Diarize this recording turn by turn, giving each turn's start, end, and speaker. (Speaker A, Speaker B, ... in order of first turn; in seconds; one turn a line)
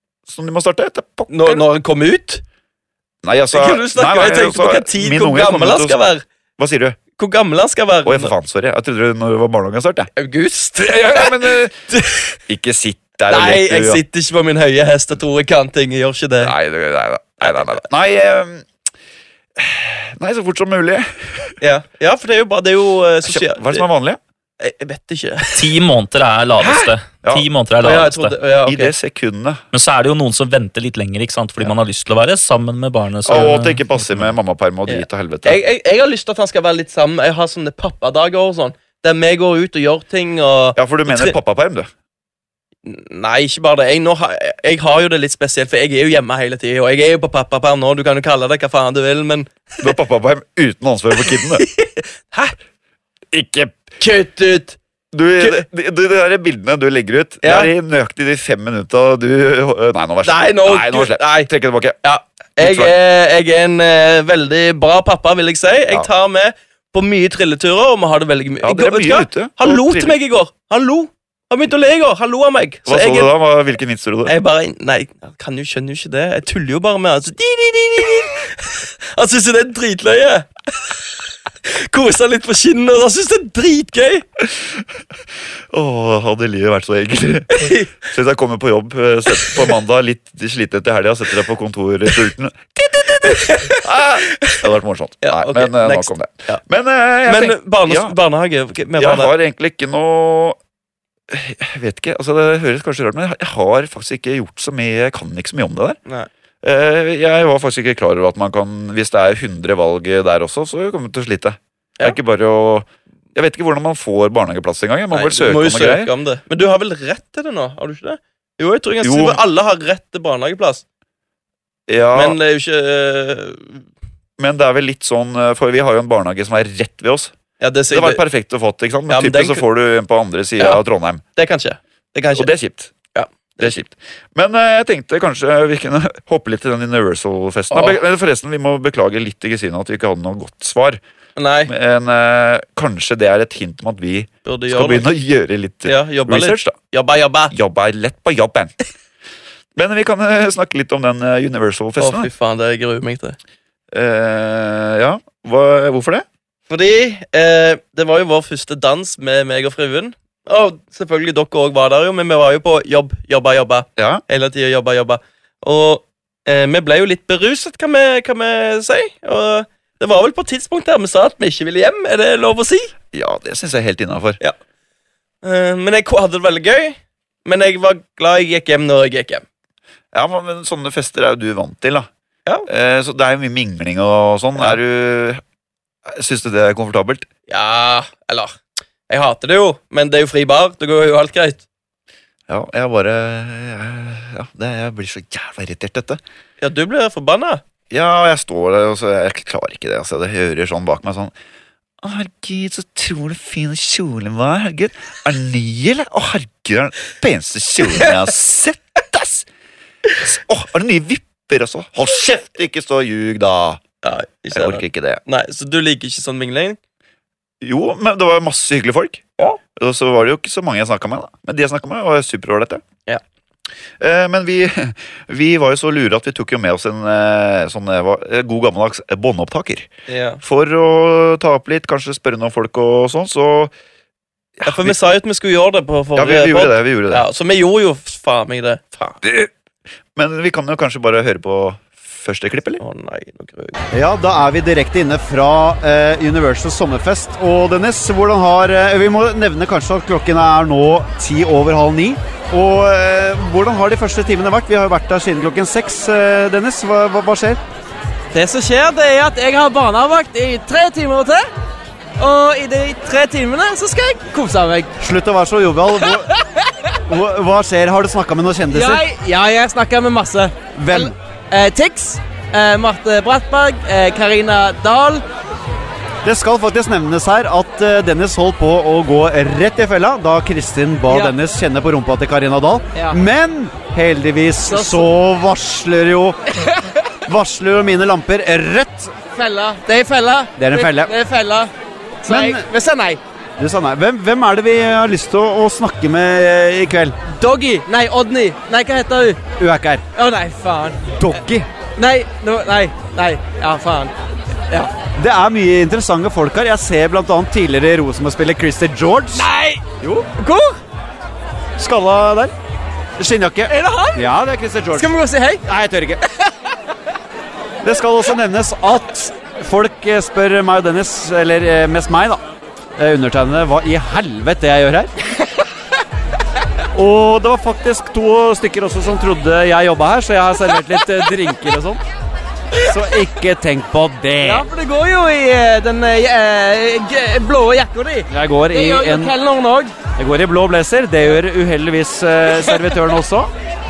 Speaker A: 0.3-1.6
Speaker B: 1.3-2.4
Speaker A: 3.2-6.0
Speaker B: 3.5-6.2
Speaker A: 6.6-7.0
Speaker B: 7.2-8.3
Speaker A: 8.0-10.1
Speaker B: 10.2-12.4
Speaker A: 10.8-11.7
Speaker A: 12.5-14.0
Speaker B: 13.3-16.5
Speaker A: 16.4-18.7
Speaker B: 17.4-17.8
Speaker A: 19.6-21.5
Speaker B: 21.6-23.9
Speaker A: 23.2-24.2
Speaker B: 24.6-25.8
Speaker C: 25.6-28.3
Speaker B: 26.6-26.9
Speaker B: 27.8-28.9
Speaker A: 28.6-29.6
Speaker C: 29.7-34.3
Speaker A: 33.2-35.6
Speaker B: 34.9-41.4
Speaker A: 40.8-41.9
Speaker B: 42.8-49.6
Speaker A: 49.8-51.6
Speaker B: 51.2-52.5
Speaker A: 53.3-53.8
Speaker B: 54.0-54.8
Speaker A: 55.1-62.0
Speaker B: 55.4-55.6
Speaker B: 57.4-57.7
Speaker B: 60.2-61.5
Speaker B: 62.0-73.3
Speaker A: 62.6-62.9
Speaker A: 68.6-70.2
Speaker A: 72.8-74.3
Speaker B: 74.3-80.9
Speaker B: 81.6-84.2
Speaker A: 84.4-84.8
Speaker A: 85.7-98.2
Speaker B: 87.5-87.9
Speaker B: 89.3-89.7
Speaker B: 93.2-94.6
Speaker B: 95.2-96.6
Speaker B: 97.2-99.3
Speaker A: 99.0-100.6
Speaker A: 101.3-106.0
Speaker A: 106.6-116.1
Speaker B: 115.1-120.8
Speaker A: 119.0-119.4
Speaker A: 121.9-122.4
Speaker B: 122.1-123.8
Speaker A: 124.4-127.3
Speaker B: 127.6-128.2
Speaker A: 127.9-131.2
Speaker B: 129.1-129.6
Speaker B: 131.3-132.5
Speaker A: 132.3-132.9
Speaker B: 133.1-133.7
Speaker A: 133.6-141.0
Speaker B: 137.7-138.0
Speaker B: 141.4-141.7
Speaker A: 141.7-146.7
Speaker B: 144.4-145.1
Speaker B: 145.8-147.5
Speaker A: 147.5-148.7
Speaker A: 149.7-152.3
Speaker B: 152.0-153.4
Speaker A: 153.9-156.2
Speaker B: 156.7-172.9
Speaker A: 164.0-164.2
Speaker A: 173.1-174.4
Speaker B: 175.4-179.4
Speaker A: 180.1-182.1
Speaker A: 182.7-185.4
Speaker A: 186.1-187.3
Speaker B: 187.5-188.6
Speaker B: 189.1-191.6
Speaker A: 192.5-196.2
Speaker B: 196.6-197.6
Speaker A: 197.9-201.3
Speaker A: 202.0-209.5
Speaker A: 210.2-213.8
Speaker B: 214.0-216.8
Speaker A: 214.5-215.2
Speaker A: 217.6-222.8
Speaker A: 224.0-229.9
Speaker B: 230.1-230.4
Speaker A: 230.4-233.7
Speaker A: 234.6-235.0
Speaker B: 234.6-239.2
Speaker A: 236.2-237.2
Speaker A: 239.2-239.5
Speaker A: 240.1-242.8
Speaker B: 242.8-243.8
Speaker D: 243.9-257.6
Speaker E: 258.3-261.5
Speaker E: 262.2-264.9
Speaker D: 265.0-266.3
Speaker E: 266.3-266.6
Speaker D: 267.1-269.0
Speaker E: 268.7-275.2
Speaker D: 270.7-271.1
Speaker D: 276.2-286.4
Speaker E: 281.1-281.3
Speaker E: 284.6-285.1
Speaker D: 287.3-289.1
Speaker E: 289.3-291.7
Speaker D: 290.6-291.1
Speaker E: 292.2-293.2
Speaker D: 292.3-292.6
Speaker D: 293.6-297.1
Speaker E: 297.3-299.4
Speaker D: 299.6-300.0
Speaker E: 300.1-301.1
Speaker D: 301.1-301.6
Speaker E: 302.0-304.1
Speaker D: 305.1-309.5
Speaker E: 309.3-310.8
Speaker D: 311.8-312.5
Speaker D: 313.2-315.1
Speaker E: 313.7-314.2
Speaker E: 314.9-315.6
Speaker D: 315.6-316.2
Speaker D: 317.8-322.4
Speaker D: 323.0-325.1
Speaker D: 326.9-332.0
Speaker D: 332.9-334.7
Speaker E: 334.4-339.9
Speaker D: 338.3-339.3
Speaker D: 340.1-343.5